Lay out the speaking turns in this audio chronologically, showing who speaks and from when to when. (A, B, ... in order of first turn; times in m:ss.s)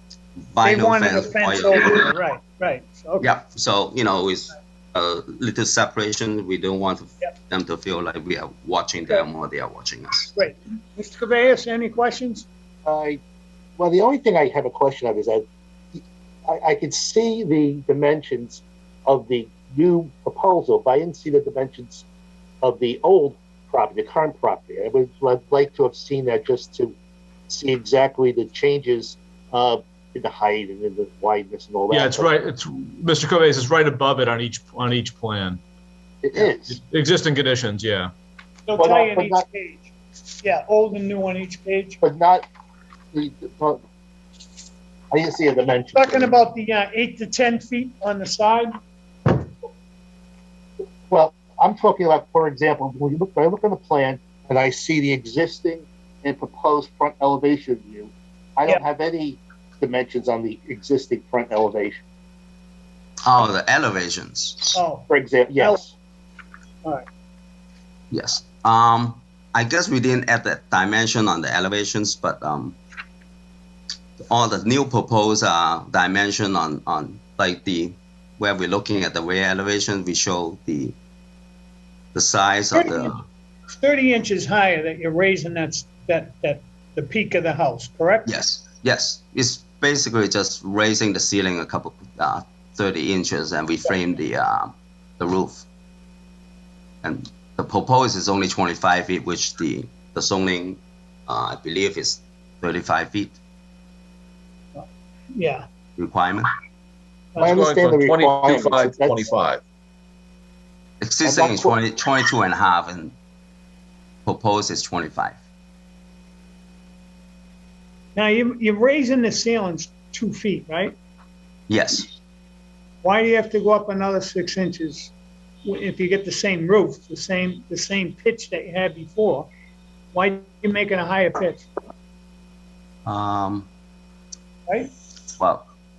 0:00.4-0:02.1 A
0:00.6-0:03.3 B
0:03.2-0:10.3 A
0:10.3-0:12.5 B
0:12.8-0:13.2 C
0:13.8-0:15.4 C
0:16.0-0:22.0 C
0:22.6-0:27.0 C
0:27.5-0:32.3 C
0:31.9-0:35.6 D
0:36.2-0:36.8 C
0:36.4-0:38.1 D
0:38.7-0:39.9 B
0:38.8-0:39.4 C
0:40.4-0:42.0 B
0:42.0-0:42.4 C
0:43.1-0:43.8 C
0:45.1-0:46.3 C
0:46.0-0:48.8 B
0:51.1-1:02.0 C
1:03.2-1:04.8 A
1:04.7-1:05.8 B
1:05.1-1:05.9 C
1:08.1-1:12.8 A
1:14.2-1:20.9 A
1:22.1-1:23.2 A
1:22.7-1:23.2 B
1:23.7-1:28.4 B
1:28.2-1:35.7 A
1:37.0-1:43.4 A
1:44.7-1:45.7 B
1:46.0-1:46.5 A
1:47.3-1:47.6 B
1:47.4-1:49.2 C
1:47.4-1:49.6 E
1:51.0-1:53.2 A
1:51.2-1:51.8 C
1:54.2-1:55.4 A
1:58.1-2:01.0 B
2:01.7-2:02.1 A
2:03.0-2:05.1 B
2:05.6-2:09.5 B
2:10.1-2:11.7 B
2:13.1-2:13.7 A
2:14.7-2:14.9 B
2:15.4-2:15.7 A